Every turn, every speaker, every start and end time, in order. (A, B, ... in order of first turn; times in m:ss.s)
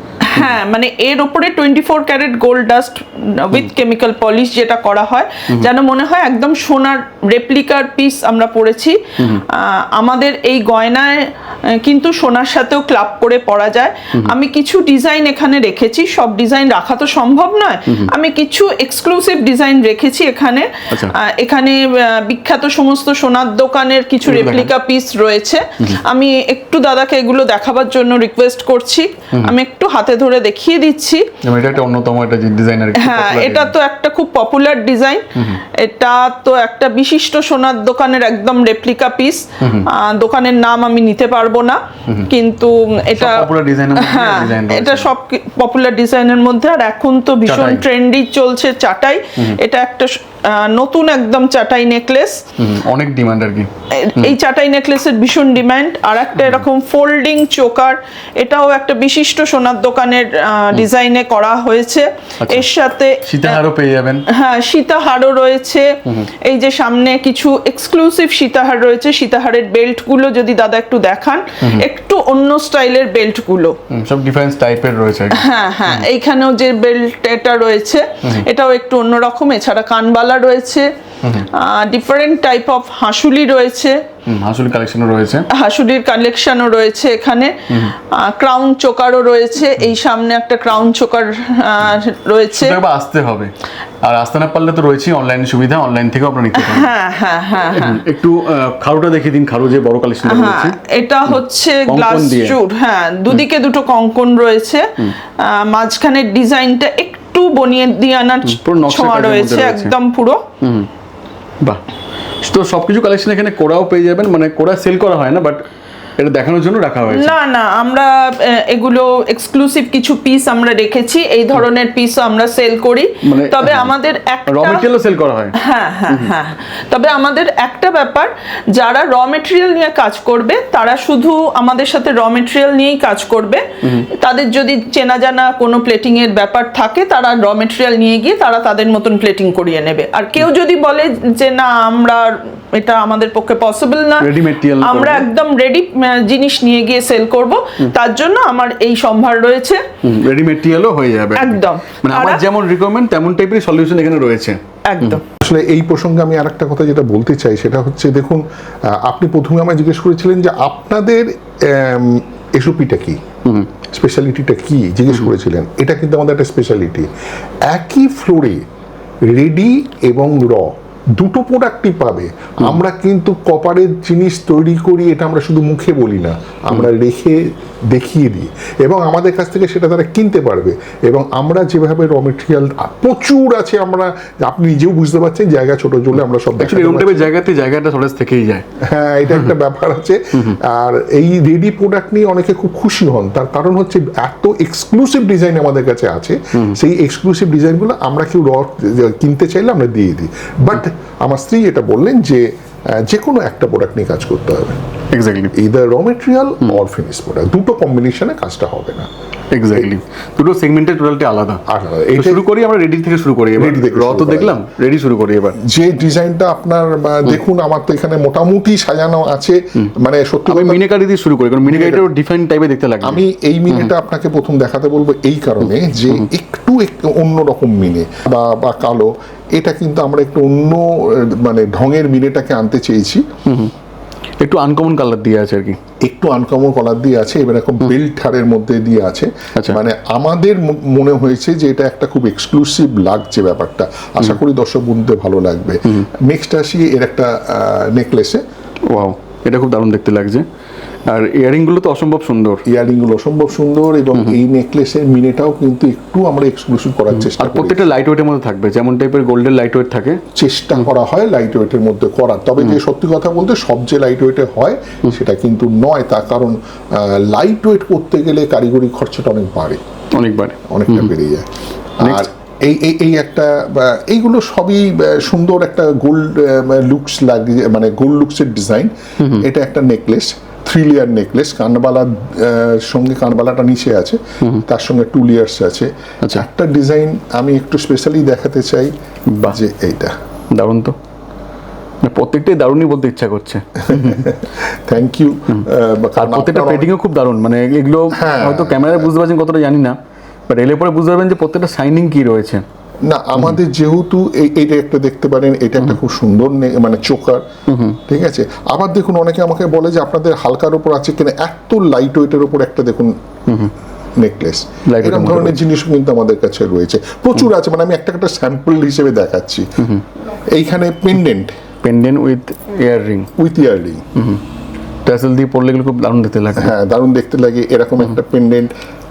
0:00.2-0:31.2 A
0:24.2-0:24.7 B
0:31.4-0:33.7 B
0:33.0-0:52.4 A
0:35.4-0:35.6 B
0:39.6-0:39.9 B
0:43.1-0:45.1 B
0:47.4-0:47.8 B
0:52.6-0:54.3 B
0:53.9-1:03.6 A
1:03.2-1:04.2 B
1:04.3-1:13.8 A
1:13.9-1:16.0 B
1:15.3-1:20.9 A
1:21.5-1:24.0 A
1:24.3-1:25.5 B
1:25.5-1:32.8 A
1:32.5-1:33.5 B
1:34.0-1:36.9 B
1:36.6-1:38.0 A
1:37.7-1:40.8 B
1:40.2-1:50.4 A
1:41.9-1:42.6 B
1:48.4-1:49.9 B
1:50.6-1:50.9 B
1:52.4-1:55.6 B
1:56.2-1:57.3 B
1:57.1-2:04.9 A
2:03.2-2:03.9 B
2:04.5-2:05.5 B
2:05.5-2:29.8 A
2:06.1-2:06.3 B
2:24.2-2:25.3 B
2:30.0-2:35.2 B
2:31.4-2:32.4 A
2:34.9-2:35.2 A
2:35.4-2:43.2 C
2:43.4-2:43.7 B
2:43.9-2:47.1 C
2:47.7-2:48.7 C
2:49.3-3:07.3 C
3:06.6-3:08.6 B
3:08.8-3:24.8 C
3:25.1-3:25.5 B
3:25.5-3:29.1 C
3:29.5-3:31.6 B
3:31.7-3:32.4 C
3:32.1-3:35.6 B
3:33.6-3:34.6 C
3:35.6-3:40.8 C
3:40.5-3:43.9 B
3:41.6-3:42.0 C
3:43.0-3:53.2 C
3:53.4-3:53.7 B
3:54.4-3:55.8 B
3:56.0-4:08.4 C
4:08.9-4:10.4 B
4:11.1-4:12.6 B
4:12.6-4:17.8 C
4:17.2-4:20.2 B
4:20.3-4:29.8 C
4:30.2-4:31.1 B
4:30.7-4:31.5 C
4:32.0-4:48.9 C
4:32.0-4:32.3 B
4:39.2-4:39.4 B
4:49.3-4:49.6 B
4:49.4-4:50.1 C
4:50.5-4:50.9 B
4:52.0-4:54.3 B
4:53.8-4:56.9 C
4:56.2-5:00.0 B
4:58.1-4:59.1 C
5:00.5-5:02.6 B
5:03.1-5:07.4 C
5:07.7-5:08.0 B
5:08.1-5:13.2 C
5:13.5-5:13.7 B
5:14.2-5:19.8 C
5:14.8-5:15.6 B
5:20.5-5:21.5 C
5:21.8-5:23.3 B
5:23.4-5:24.0 C
5:24.1-5:24.4 B
5:25.0-5:26.7 B
5:26.6-5:28.7 C